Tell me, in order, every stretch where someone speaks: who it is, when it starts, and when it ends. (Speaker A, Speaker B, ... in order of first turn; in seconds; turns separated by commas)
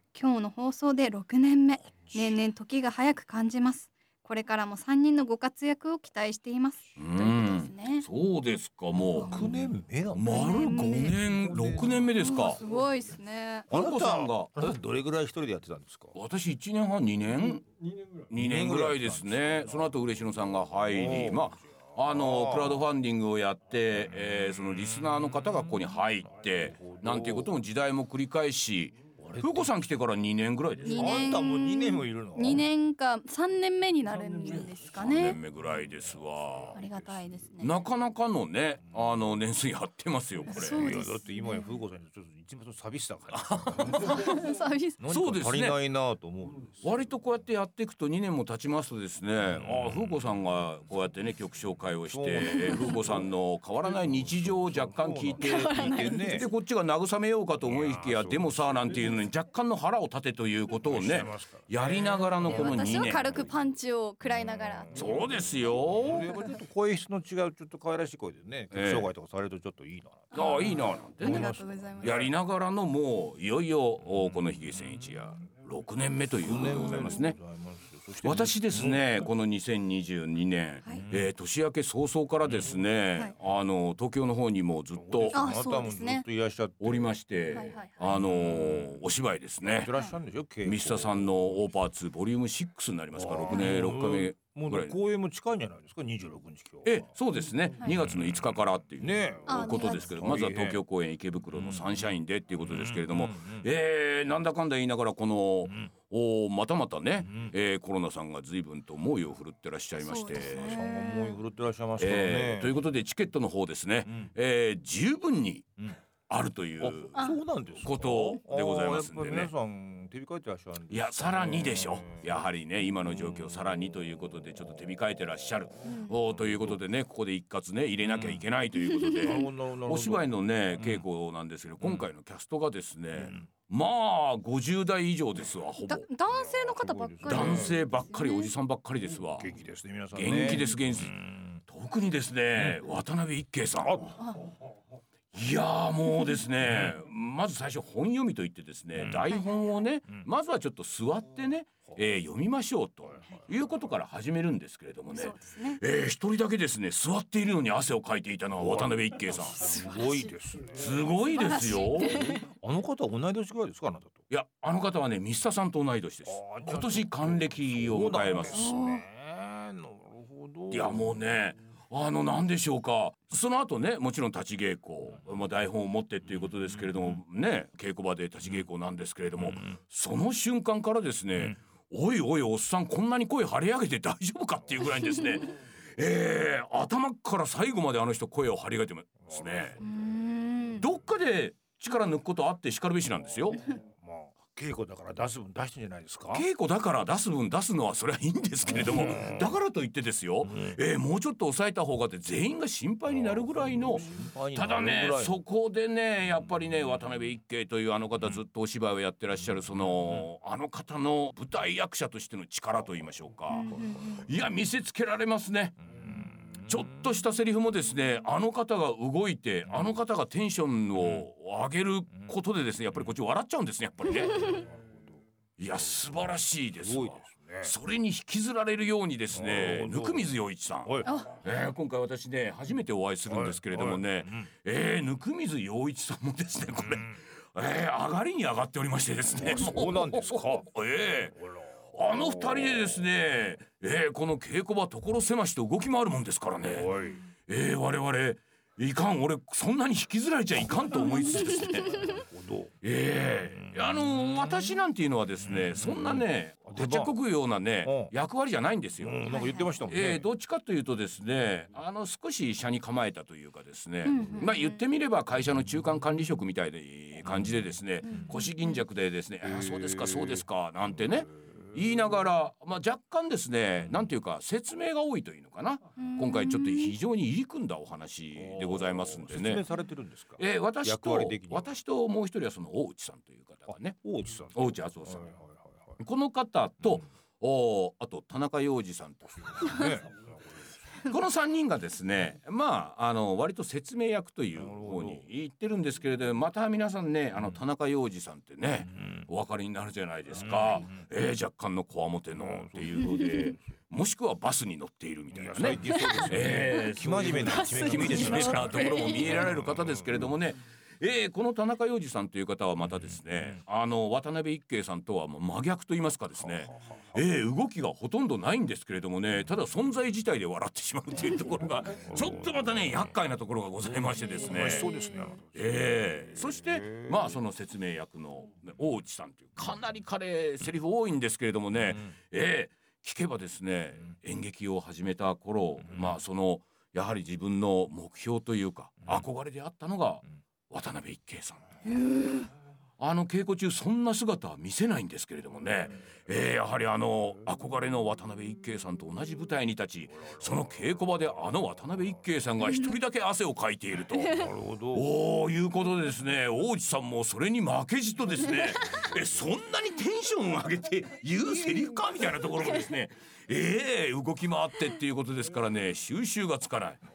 Speaker A: 0.1-8.1, Speaker B: 7.0-9.5, Speaker A: 9.1-9.5, Speaker C: 9.2-12.2, Speaker B: 10.1-12.6, Speaker A: 10.3-11.1, Speaker A: 12.2-13.7, Speaker C: 13.7-16.1, Speaker B: 13.7-14.8, Speaker B: 16.1-17.7, Speaker B: 18.3-31.4, Speaker C: 18.3-19.9, Speaker C: 20.9-22.8, Speaker C: 26.7-27.5, Speaker C: 29.2-29.7, Speaker A: 30.9-35.4, Speaker C: 30.9-32.7, Speaker B: 34.9-36.8, Speaker A: 36.7-37.7, Speaker C: 36.8-37.1, Speaker B: 37.6-40.9, Speaker A: 40.5-41.8, Speaker C: 40.7-44.2, Speaker B: 43.3-44.4, Speaker A: 44.0-45.0, Speaker C: 45.0-47.0, Speaker B: 45.1-45.8, Speaker B: 46.8-63.4, Speaker C: 52.1-53.2, Speaker C: 53.8-56.5, Speaker A: 55.4-56.5, Speaker C: 57.6-59.2, Speaker C: 60.8-63.5, Speaker A: 62.5-64.9, Speaker C: 64.3-72.3, Speaker B: 64.9-66.3, Speaker B: 68.7-69.1, Speaker A: 70.3-72.3, Speaker B: 70.3-71.5, Speaker B: 72.0-77.4, Speaker C: 76.4-79.0, Speaker A: 76.8-77.2, Speaker B: 78.2-85.5, Speaker C: 80.9-81.2, Speaker C: 84.9-87.2, Speaker A: 85.3-86.2, Speaker B: 86.8-89.9, Speaker A: 87.5-88.0, Speaker C: 88.1-89.0, Speaker C: 89.6-91.6, Speaker B: 90.6-94.9, Speaker C: 93.1-97.1, Speaker B: 96.8-110.8, Speaker C: 99.0-100.8, Speaker A: 99.5-100.2, Speaker C: 101.5-102.0, Speaker C: 102.6-103.7, Speaker C: 107.2-107.5, Speaker A: 110.0-111.4, Speaker C: 110.3-112.8, Speaker B: 112.0-115.7, Speaker B: 116.3-117.2, Speaker C: 116.8-122.5, Speaker A: 117.2-117.4, Speaker B: 117.8-119.5, Speaker B: 120.9-136.1, Speaker A: 125.8-126.2, Speaker C: 126.3-126.8, Speaker C: 128.0-128.4, Speaker A: 128.8-129.5, Speaker C: 129.2-131.0, Speaker C: 133.2-133.5, Speaker A: 135.9-138.5, Speaker C: 136.3-137.8, Speaker B: 137.2-139.5, Speaker C: 139.4-141.6, Speaker B: 140.1-144.2, Speaker A: 140.3-140.7, Speaker C: 143.8-144.2, Speaker B: 145.3-159.8, Speaker C: 149.0-149.3, Speaker A: 149.3-149.8, Speaker A: 155.1-155.8, Speaker C: 158.6-161.2, Speaker A: 159.5-160.3, Speaker B: 160.7-162.4, Speaker A: 161.3-162.5, Speaker C: 162.0-164.2, Speaker B: 164.3-168.7, Speaker C: 166.2-171.2, Speaker A: 168.5-169.0, Speaker B: 170.7-189.8, Speaker C: 179.4-179.7, Speaker C: 189.3-189.9, Speaker A: 189.8-190.8, Speaker B: 190.8-193.6, Speaker C: 193.6-196.4, Speaker B: 196.3-215.8, Speaker C: 198.6-199.6, Speaker C: 200.4-200.8, Speaker C: 203.8-205.4, Speaker A: 213.5-214.2, Speaker C: 213.7-214.2, Speaker C: 215.9-216.9, Speaker B: 216.6-224.7, Speaker C: 224.4-225.2, Speaker B: 225.6-246.9, Speaker C: 226.8-227.7, Speaker C: 229.3-230.3, Speaker C: 230.8-231.1, Speaker C: 233.3-234.5, Speaker C: 236.8-237.1, Speaker C: 239.4-240.7, Speaker C: 242.2-242.9, Speaker C: 246.6-247.2, Speaker B: 247.5-252.2, Speaker A: 251.1-252.2, Speaker C: 251.9-252.7, Speaker B: 252.8-259.3, Speaker C: 253.5-254.5, Speaker C: 255.5-257.1, Speaker C: 257.8-258.1, Speaker C: 259.0-260.2, Speaker A: 259.3-259.8, Speaker B: 259.9-279.6, Speaker A: 264.0-264.8, Speaker C: 267.3-267.5, Speaker A: 268.0-268.8, Speaker C: 269.4-270.4, Speaker C: 271.1-271.8, Speaker A: 276.0-276.9, Speaker C: 278.4-281.7, Speaker B: 280.4-284.0, Speaker C: 283.7-285.9, Speaker B: 284.5-285.3, Speaker B: 286.0-289.9, Speaker C: 289.5-290.7, Speaker B: 291.0-324.9, Speaker C: 294.6-295.2, Speaker C: 300.4-300.9, Speaker C: 302.3-303.5, Speaker C: 305.3-310.3, Speaker A: 305.9-306.3, Speaker A: 307.4-309.4, Speaker C: 316.4-317.2, Speaker C: 321.9-323.1, Speaker C: 323.9-327.3, Speaker A: 324.3-325.3, Speaker B: 325.5-342.0, Speaker A: 341.9-342.5, Speaker B: 343.0-367.0, Speaker A: 352.6-352.9, Speaker A: 354.2-354.5, Speaker C: 354.3-355.1